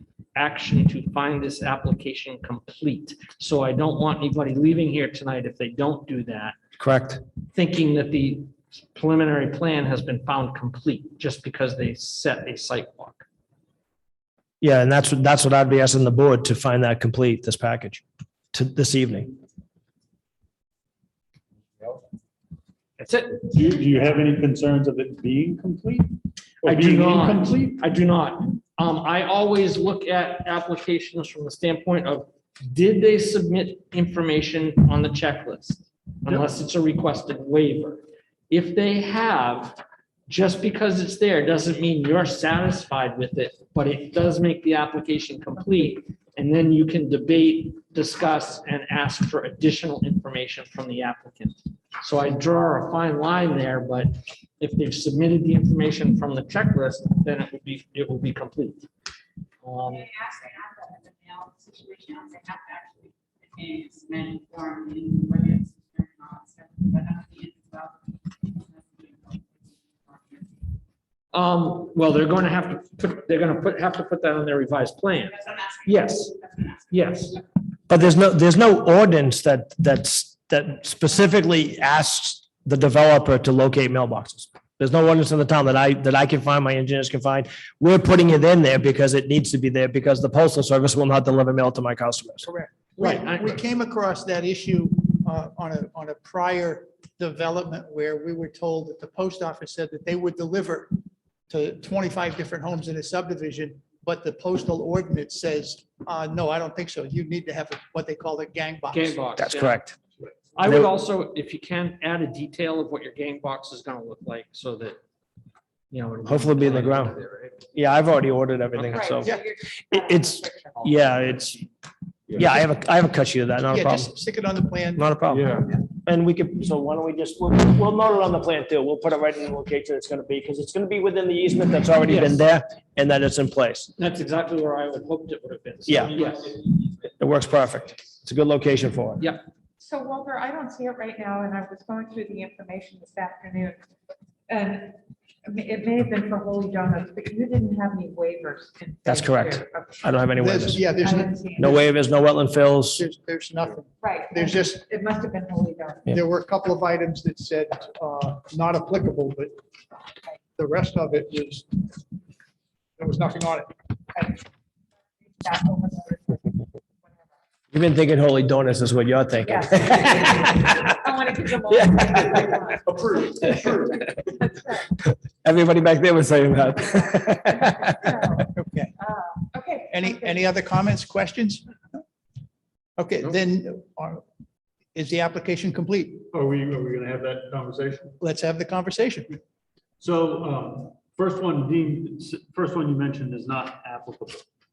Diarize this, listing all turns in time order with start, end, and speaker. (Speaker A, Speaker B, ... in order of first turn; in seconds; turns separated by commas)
Speaker A: 0.3-6.5, Speaker B: 6.8-7.2, Speaker A: 7.5-13.2, Speaker B: 14.6-19.3, Speaker A: 23.0-23.5, Speaker C: 23.5-27.8, Speaker A: 26.6-58.9, Speaker A: 59.6-60.1, Speaker D: 61.3-62.8, Speaker D: 63.6-67.8, Speaker D: 69.0-69.4, Speaker A: 71.3-77.4, Speaker B: 77.9-92.5, Speaker E: 92.4-100.9, Speaker A: 93.0-93.6, Speaker E: 101.5-109.2, Speaker A: 108.9-109.8, Speaker B: 109.4-110.0, Speaker A: 110.5-115.0, Speaker B: 110.6-110.9, Speaker A: 115.9-117.5, Speaker B: 116.2-117.1, Speaker B: 117.7-121.7, Speaker A: 118.7-119.2, Speaker F: 119.0-120.8, Speaker B: 122.3-124.1, Speaker E: 123.7-125.1, Speaker B: 125.0-133.9, Speaker C: 125.3-125.7, Speaker A: 132.1-132.4, Speaker A: 133.9-136.6, Speaker B: 135.9-136.1, Speaker B: 137.2-139.2, Speaker F: 139.8-143.8, Speaker F: 144.5-150.1, Speaker B: 149.1-150.8, Speaker E: 150.4-151.8, Speaker F: 151.0-151.8, Speaker B: 151.6-153.0, Speaker E: 152.9-154.8, Speaker F: 154.0-156.1, Speaker E: 156.1-159.5, Speaker E: 160.6-161.9, Speaker E: 163.0-164.3, Speaker F: 165.2-167.3, Speaker B: 167.7-170.8, Speaker F: 169.4-174.9, Speaker B: 171.7-172.6, Speaker C: 173.0-173.7, Speaker B: 175.0-178.4, Speaker F: 177.2-180.5, Speaker E: 178.5-178.9, Speaker E: 179.9-182.0, Speaker E: 183.0-184.2, Speaker E: 184.9-186.2, Speaker C: 186.3-188.2, Speaker E: 188.2-189.4, Speaker C: 190.0-194.4